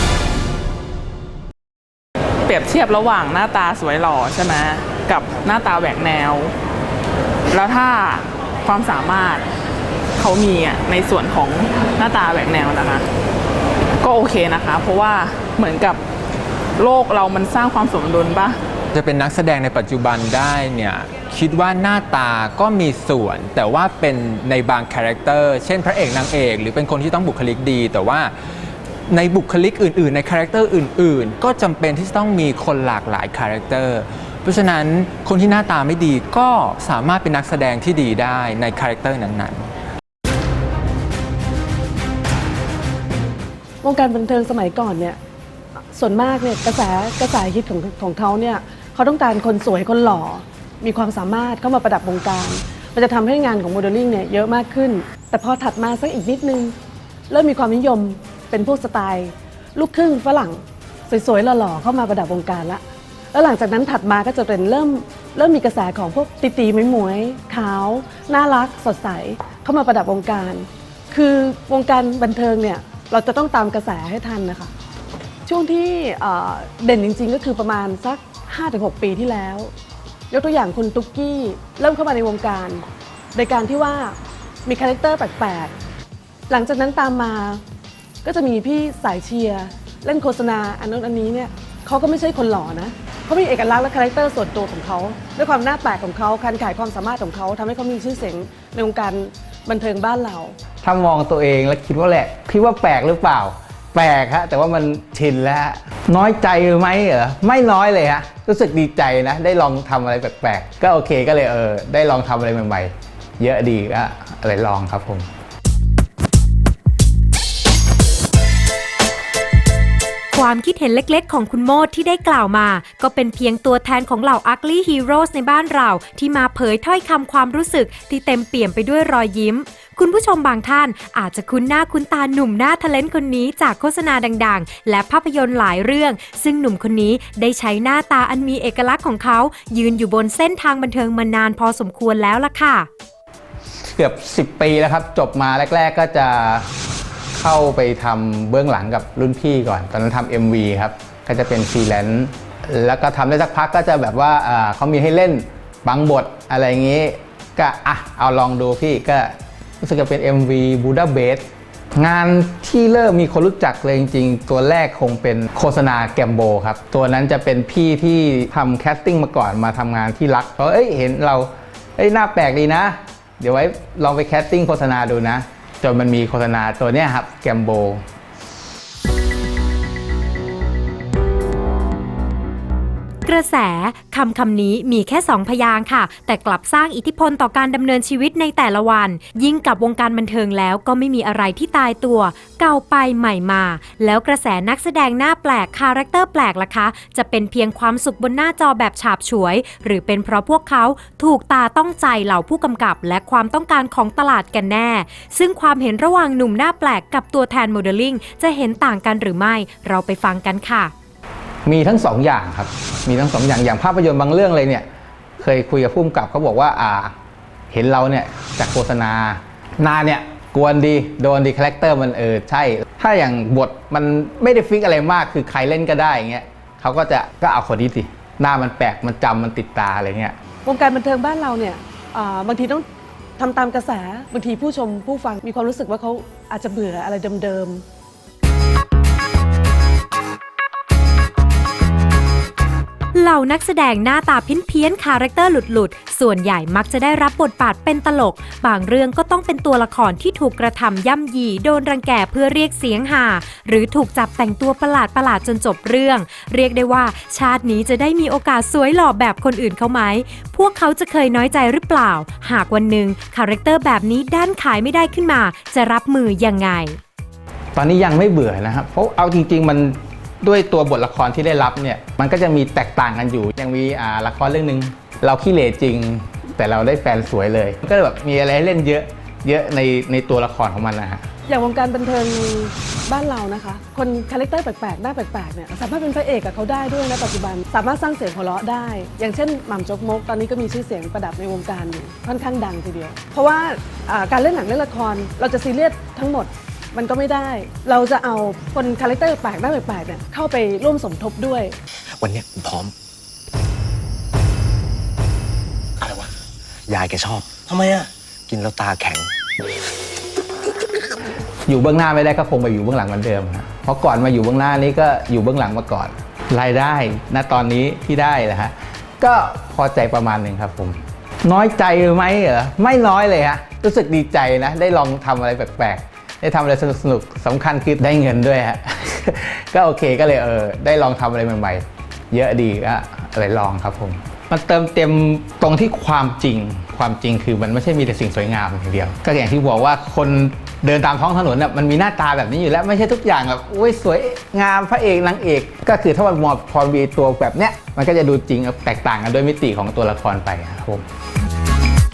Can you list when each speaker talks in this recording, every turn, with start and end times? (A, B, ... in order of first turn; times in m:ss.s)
0:02.5-0:06.5 A
0:07.5-0:09.5 A
0:10.2-0:13.1 A
0:14.0-0:16.0 A
0:16.8-0:18.6 A
0:18.9-0:28.3 B
0:29.1-0:39.7 B
0:43.8-0:45.2 C
0:45.9-0:56.8 C
0:57.3-1:02.8 C
1:03.3-1:14.7 C
1:15.5-1:19.7 C
1:20.3-1:25.7 C
1:26.5-1:27.6 C
1:28.2-1:40.6 C
1:40.8-1:55.3 D
2:00.3-2:22.9 E
2:23.9-2:26.7 D
2:27.3-2:58.0 D
3:03.2-3:30.9 E
3:31.7-3:34.9 D
3:35.4-3:37.1 D
3:37.7-3:50.4 D
3:50.6-3:52.8 C
3:53.4-3:57.8 C
4:03.1-4:27.0 E
4:27.8-4:41.2 D
4:41.5-5:01.8 C
5:02.2-5:02.9 F
5:06.0-5:06.3 F
5:06.9-5:09.3 F
5:11.7-5:51.0 D